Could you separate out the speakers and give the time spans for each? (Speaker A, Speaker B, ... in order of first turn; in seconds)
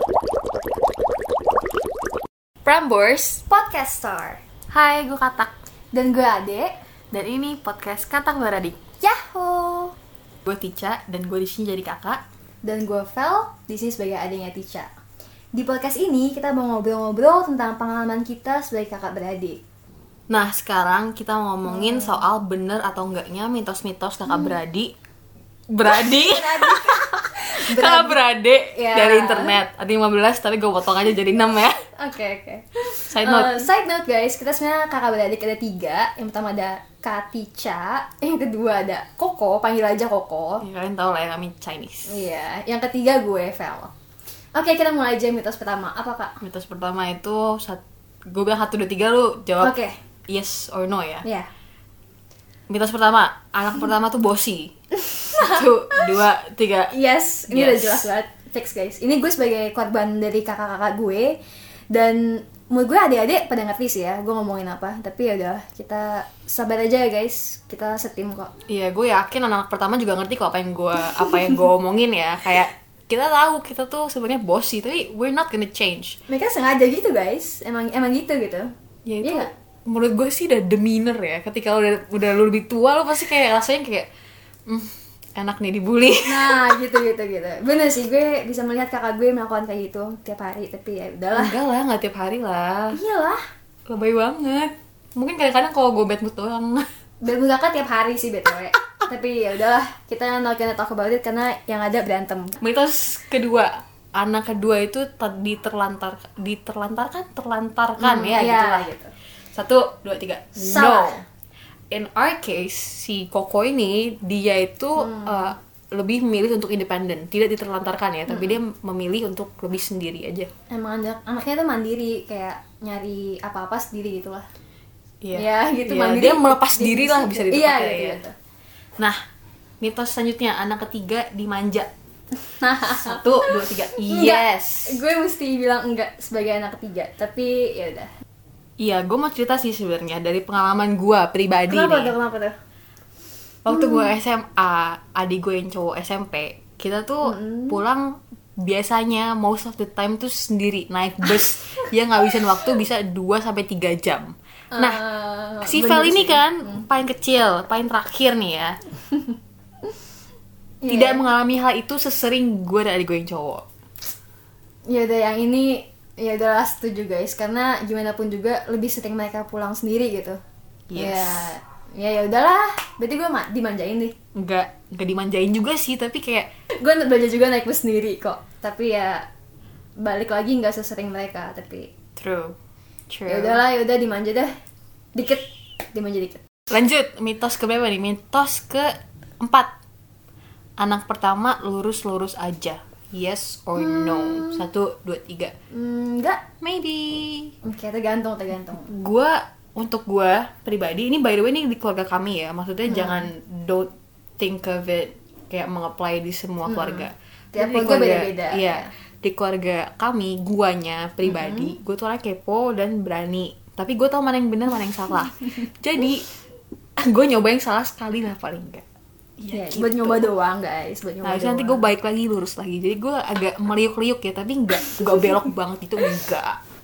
Speaker A: 2.6-3.4, 4.7-5.5, 7.1-8.8, 10.4-12.2, 20.3-24.9, 25.7-31.9, 33.0-33.7, 40.6-42.1, 46.4-49.7, 50.3-51.2, 52.7-54.7, 55.3-56.9, 57.5-58.0, 68.7-76.2, 79.0-84.1, 84.7-86.5, 91.3-93.0, 93.9-96.9, 102.6-108.9, 109.5-111.2, 111.9-120.5, 125.2-128.2, 129.8-131.9, 132.8-135.0, 138.8-142.1, 143.7-155.0, 155.6-158.8, 160.9-163.6, 170.9-171.5, 174.3-176.5, 182.2-182.6, 183.1-183.6, 186.7-189.7, 190.8-195.5, 196.6-197.5, 198.8-216.2, 217.0-218.8, 219.4-220.3, 221.2-226.6
Speaker B: 3.5-4.4, 5.9-6.7, 9.0-9.9, 12.6-14.9, 15.5-19.6, 21.6-22.2, 24.3-24.6, 25.9-28.2, 28.8-29.5, 31.9-40.6, 42.1-43.9, 44.5-46.3, 49.6-49.9, 55.0-55.6, 56.9-61.4, 61.9-68.5, 76.3-78.7, 79.2-79.5, 86.2-91.5, 92.9-93.4, 97.2-102.6, 108.0-109.1, 110.5-111.2, 115.0-115.5, 118.3-118.6, 120.7-124.4, 125.3-128.3, 132.5-133.5, 134.1-138.1, 141.7-142.6, 147.2-147.8, 154.7-156.4, 160.8-161.2, 164.9-170.4, 170.9-174.1, 176.8-179.2, 180.0-181.9, 183.3-184.5, 185.1-186.4, 193.8-194.6, 195.7-196.4, 197.6-198.9, 202.9-203.3, 206.7-208.9, 211.2-211.7, 219.5-221.8